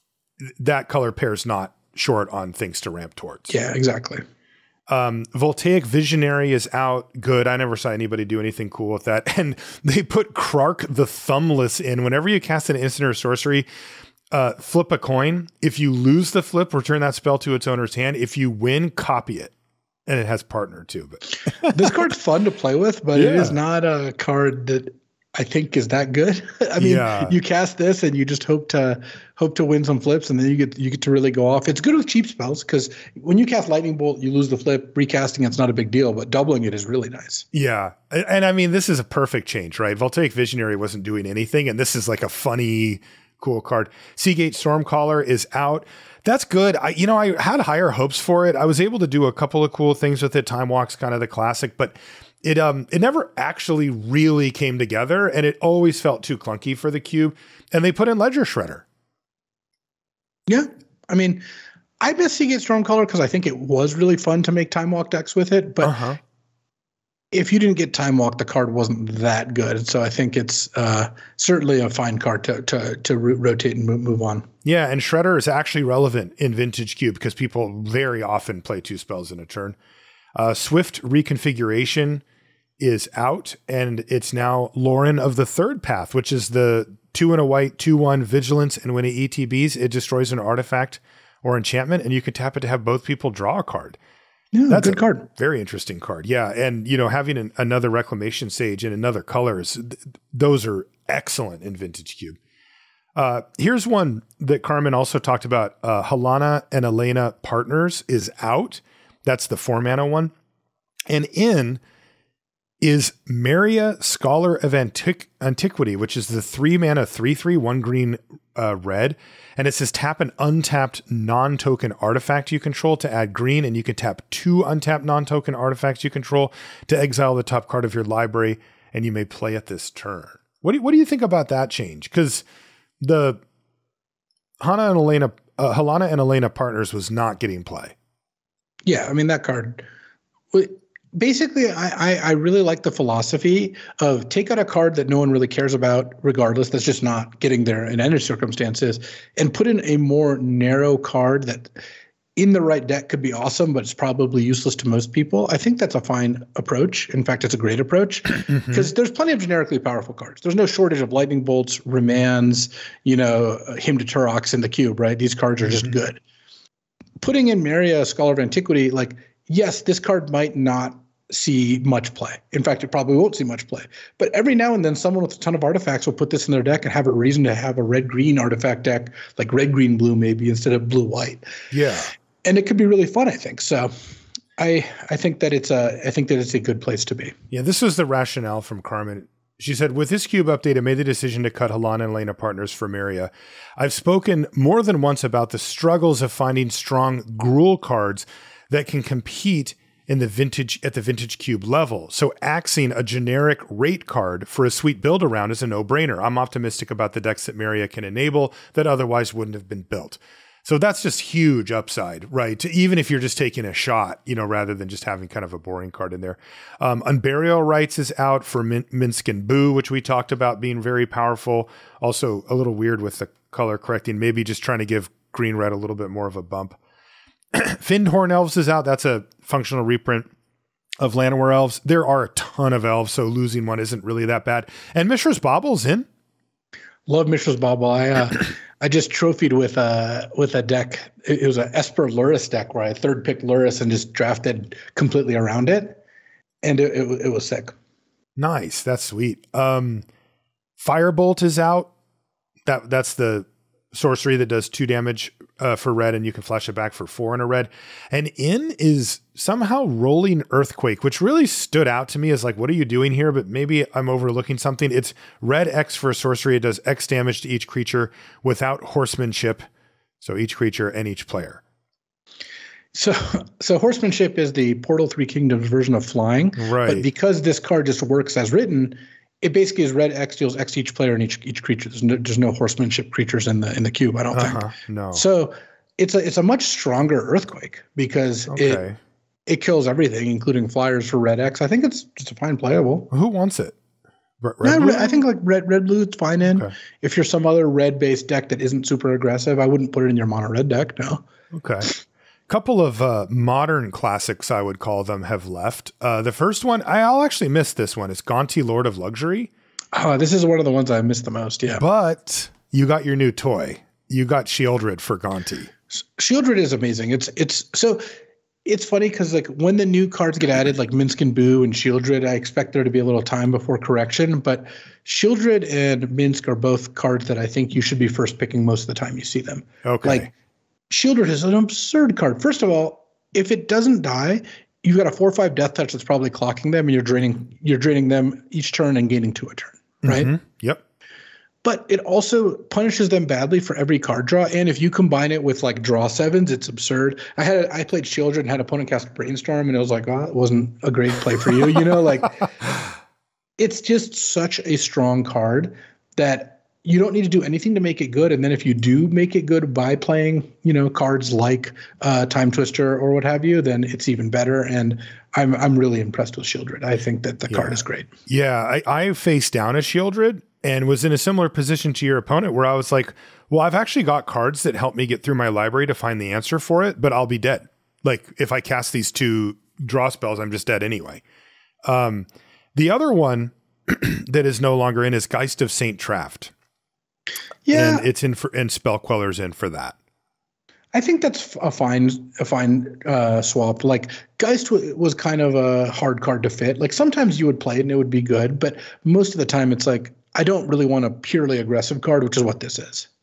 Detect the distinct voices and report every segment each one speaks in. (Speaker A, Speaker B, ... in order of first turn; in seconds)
Speaker A: 0.4-3.5, 4.9-13.7, 14.3-19.5, 20.1-22.0, 23.1-23.6, 26.8-27.4, 37.5-58.9, 65.8-66.2, 74.6-79.8, 80.3-82.2, 82.8-94.0, 94.7-102.4, 103.1-110.3, 111.1-111.8, 112.8-132.4, 133.0-133.4, 134.6-137.9, 158.5-158.8, 181.7-182.1, 187.5-226.8, 227.5-230.3, 231.0-236.1, 248.4-250.1, 250.8-251.9, 252.6-269.7, 270.2-271.6, 276.6-277.1, 284.3-285.3, 288.5-289.0, 293.1-293.8, 294.4-295.2, 296.4-296.7, 301.5-301.9, 302.5-309.5, 311.8-315.7, 329.8-330.3, 340.0-340.8, 367.5-381.2, 381.9-386.5, 387.7-390.0
Speaker B: 3.5-4.2, 21.6-37.5, 60.5-61.4, 62.0-66.0, 67.3-74.5, 94.5-95.3, 138.9-139.8, 140.5-151.7, 152.4-166.2, 167.2-181.4, 182.4-183.9, 184.6-187.3, 237.1-246.0, 246.6-247.7, 272.9-288.8, 289.5-293.1, 294.6-301.2, 309.9-311.8, 315.9-318.0, 318.6-330.3, 330.9-340.3, 341.6-352.5, 353.6-368.1, 387.7-388.1, 390.9-403.1